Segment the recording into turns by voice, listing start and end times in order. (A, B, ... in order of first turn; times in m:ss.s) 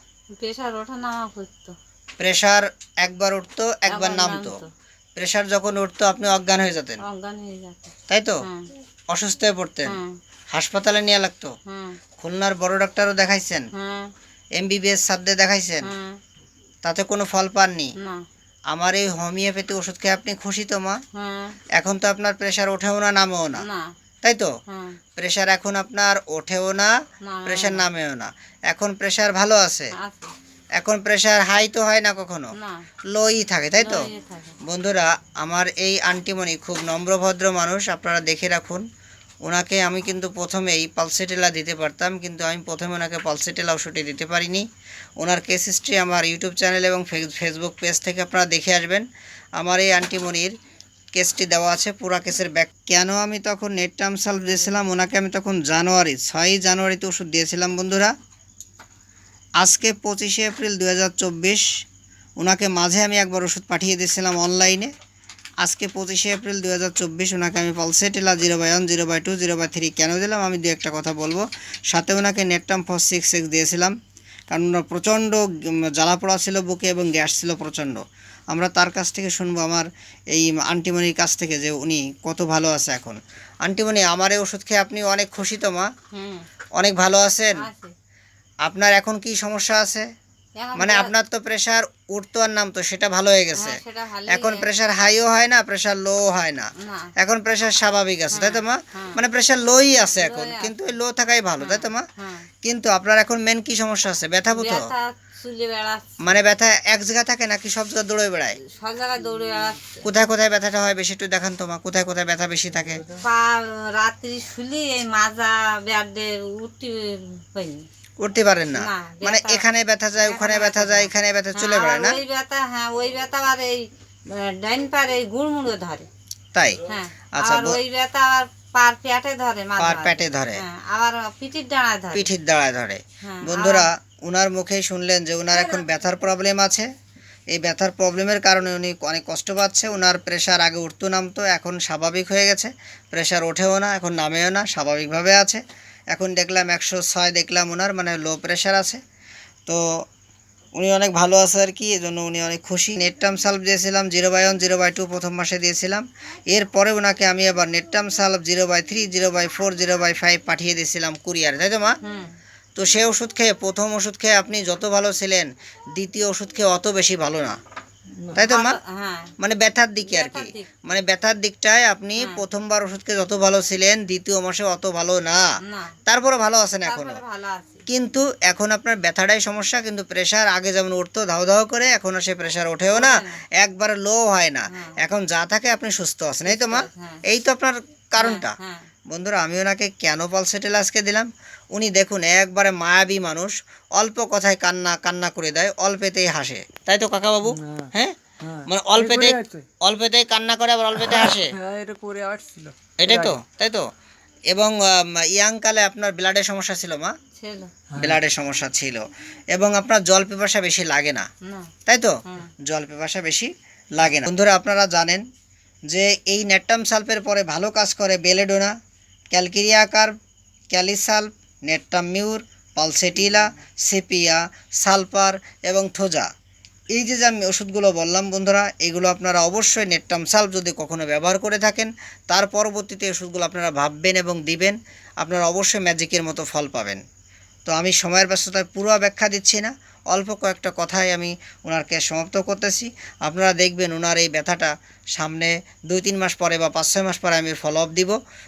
0:00.3-0:01.8 A
0:02.2-0:04.6 B
0:03.9-0:04.7 A
0:05.2-0:07.0 B
0:07.0-0:08.7 A
0:08.1-0:08.4 B
0:09.1-0:10.0 B
0:09.8-0:10.2 A
0:10.5-0:11.5 B
0:11.6-0:12.0 A
0:12.2-0:13.7 B
0:13.7-0:14.1 A
0:14.6-0:15.9 B
0:15.8-0:16.2 A
0:16.8-0:17.9 B
0:18.0-0:18.2 A
0:18.7-0:21.0 B
0:21.1-0:21.6 A
0:21.8-0:23.6 B
0:23.6-0:23.9 A
0:24.2-0:24.5 B
0:24.7-0:25.0 A
0:25.2-0:26.9 B
0:27.2-0:27.8 A
0:27.4-0:29.9 B
0:29.9-0:30.3 A
0:30.8-0:32.5 B
0:32.5-0:32.9 A
0:33.1-0:34.1 B
0:33.7-0:34.5 A
0:34.6-0:38.8 B
0:39.4-0:44.6 B
0:45.2-0:49.0 B
0:49.6-0:50.5 B
0:51.1-0:58.1 B
0:59.6-1:01.6 B
1:02.4-1:04.9 B
1:05.6-1:13.9 B
1:14.5-1:25.9 B
1:26.1-1:26.5 A
1:26.8-1:27.6 B
1:27.6-1:27.9 A
1:28.6-1:30.0 B
1:30.6-1:31.1 A
1:30.8-1:42.0 B
1:33.5-1:34.7 A
1:36.8-1:37.1 A
1:38.3-1:39.2 A
1:40.2-1:40.7 A
1:41.6-1:42.5 A
1:42.6-1:44.9 B
1:44.5-1:46.2 A
1:46.2-1:48.6 B
1:48.6-1:50.0 A
1:50.0-1:53.0 B
1:53.1-1:57.9 A
1:58.2-2:02.2 B
1:58.8-1:59.6 A
2:00.2-2:06.1 A
2:06.5-2:06.8 B
2:06.9-2:12.3 A
2:07.3-2:07.8 B
2:09.8-2:10.6 B
2:12.1-2:16.9 B
2:13.2-2:13.9 A
2:17.5-2:29.0 B
2:29.7-2:30.0 B
2:30.8-2:42.0 B
2:42.0-2:42.4 A
2:42.8-2:47.6 B
2:48.3-2:48.8 B
2:48.4-2:49.3 A
2:49.4-2:55.5 B
2:50.0-2:50.7 A
2:52.2-2:52.4 A
2:55.6-2:56.0 A
2:56.1-2:57.2 B
2:56.8-2:57.9 A
2:57.9-3:08.6 B
3:02.9-3:03.4 A
3:04.7-3:05.0 A
3:06.4-3:07.2 A
3:08.2-3:08.9 A
3:09.1-3:21.6 B
3:17.5-3:19.7 C
3:21.0-3:23.4 C
3:23.0-3:23.9 B
3:24.5-3:27.1 B
3:27.3-3:27.8 A
3:27.9-3:28.2 C
3:27.9-3:31.2 B
3:31.4-3:31.7 A
3:31.8-3:35.2 B
3:35.9-3:38.7 B
3:39.3-3:40.1 B
3:40.7-3:46.3 B
3:46.9-3:57.0 B
3:57.7-4:08.2 B